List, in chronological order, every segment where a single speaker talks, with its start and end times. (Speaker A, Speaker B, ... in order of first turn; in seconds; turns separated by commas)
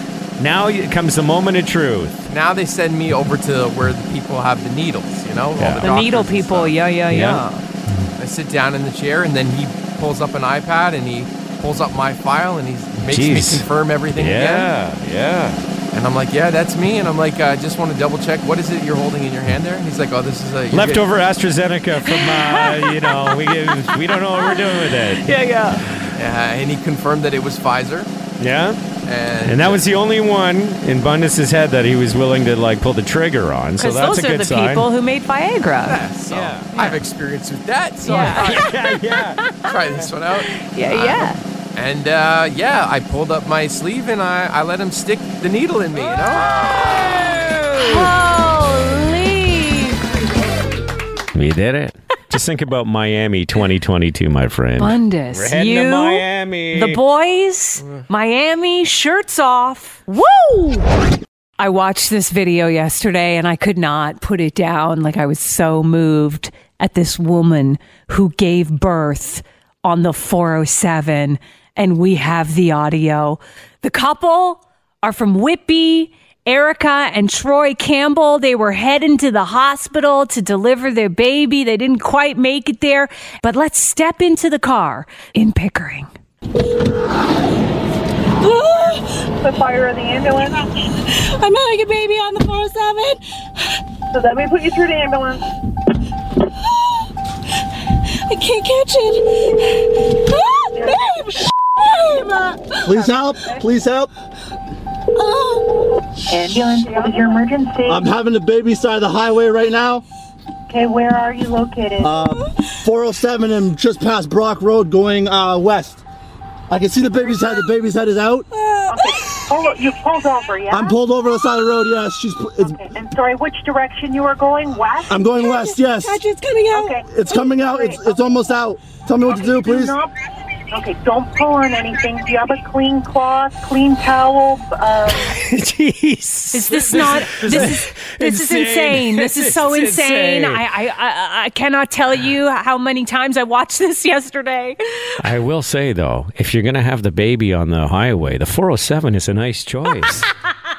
Speaker A: 0.4-2.3, Speaker B: 2.3-6.8, Speaker A: 5.6-5.9, Speaker C: 5.8-7.6, Speaker A: 7.1-8.1, Speaker B: 8.2-14.7, Speaker A: 13.0-15.6, Speaker B: 15.9-21.1, Speaker A: 20.7-25.4, Speaker C: 22.1-25.9, Speaker B: 26.1-28.1, Speaker A: 28.4-28.8, Speaker B: 29.0-29.9, Speaker A: 29.4-34.9, Speaker C: 33.8-36.0, Speaker B: 35.9-38.7, Speaker A: 36.3-36.7, Speaker C: 38.0-39.7, Speaker A: 38.1-39.4, Speaker B: 39.6-46.5, Speaker C: 40.5-41.4, Speaker A: 46.1-48.2, Speaker C: 47.8-50.1, Speaker A: 51.3-57.0, Speaker C: 54.8-60.9, Speaker C: 61.6-86.1, Speaker D: 88.4-89.7, Speaker E: 89.5-90.4, Speaker D: 90.2-93.8, Speaker E: 94.2-95.4, Speaker D: 96.6-97.1, Speaker D: 97.8-103.2, Speaker F: 102.8-104.1, Speaker D: 105.1-106.0, Speaker E: 106.3-108.1, Speaker F: 107.8-110.0, Speaker E: 110.7-112.2, Speaker F: 112.0-116.0, Speaker D: 112.2-112.7, Speaker F: 116.7-118.5, Speaker D: 117.0-117.7, Speaker D: 118.5-119.4, Speaker E: 118.9-121.0, Speaker F: 120.7-122.8, Speaker E: 122.6-125.2, Speaker F: 125.1-126.2, Speaker D: 125.2-127.4, Speaker E: 126.7-128.2, Speaker F: 127.1-130.0, Speaker E: 129.2-130.1, Speaker E: 130.7-135.4, Speaker A: 135.3-140.6, Speaker C: 136.5-145.2, Speaker A: 145.2-150.3